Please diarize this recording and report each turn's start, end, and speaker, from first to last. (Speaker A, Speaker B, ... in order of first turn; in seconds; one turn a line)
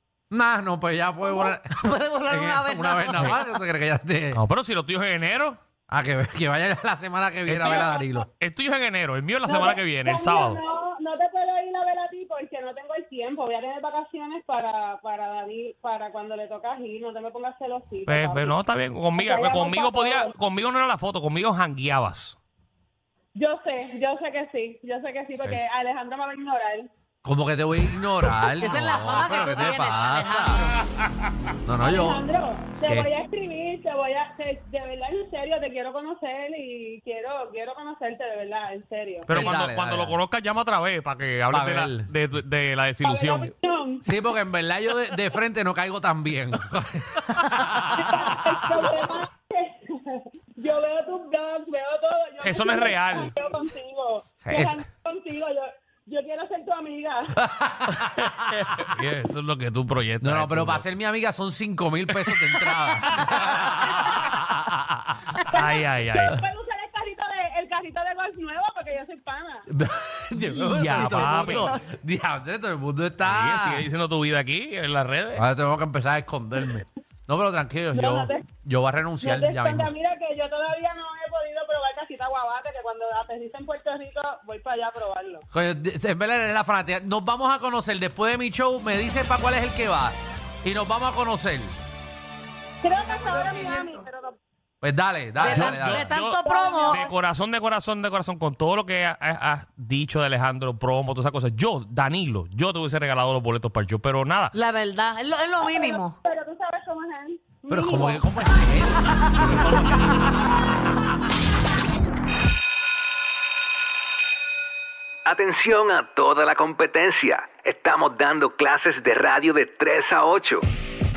Speaker A: 0.3-4.4
Speaker B: 1.7-3.5
Speaker C: 4.3-5.6
Speaker A: 5.9-8.3
Speaker C: 7.5-10.6
Speaker D: 7.7-8.1
Speaker D: 9.4-18.6
Speaker C: 18.1-22.4
Speaker D: 19.2-20.3
Speaker D: 23.4-26.9
Speaker A: 27.2-30.6
Speaker B: 28.6-30.8
Speaker C: 29.2-29.8
Speaker A: 31.6-32.3
Speaker D: 31.8-39.3
Speaker A: 32.9-33.1
Speaker C: 39.3-43.5
Speaker A: 39.3-40.2
Speaker A: 41.5-42.1
Speaker D: 43.0-44.0
Speaker A: 44.0-48.3
Speaker D: 48.0-57.4
Speaker C: 52.4-53.3
Speaker C: 54.5-54.8
Speaker A: 57.4-58.0
Speaker C: 57.9-60.9
Speaker A: 60.2-65.4
Speaker C: 62.2-64.3
Speaker C: 65.3-66.4
Speaker D: 65.5-69.7
Speaker A: 69.7-73.9
Speaker C: 70.6-71.7
Speaker B: 70.9-71.7
Speaker C: 73.2-75.4
Speaker A: 75.3-79.9
Speaker D: 77.9-78.5
Speaker D: 79.2-85.5
Speaker A: 85.5-91.8
Speaker D: 92.8-94.3
Speaker A: 94.8-96.1
Speaker B: 95.4-97.1
Speaker C: 95.4-104.5
Speaker D: 96.4-97.1
Speaker B: 104.5-106.2
Speaker D: 105.6-108.3
Speaker A: 107.7-109.7
Speaker E: 115.2-120.7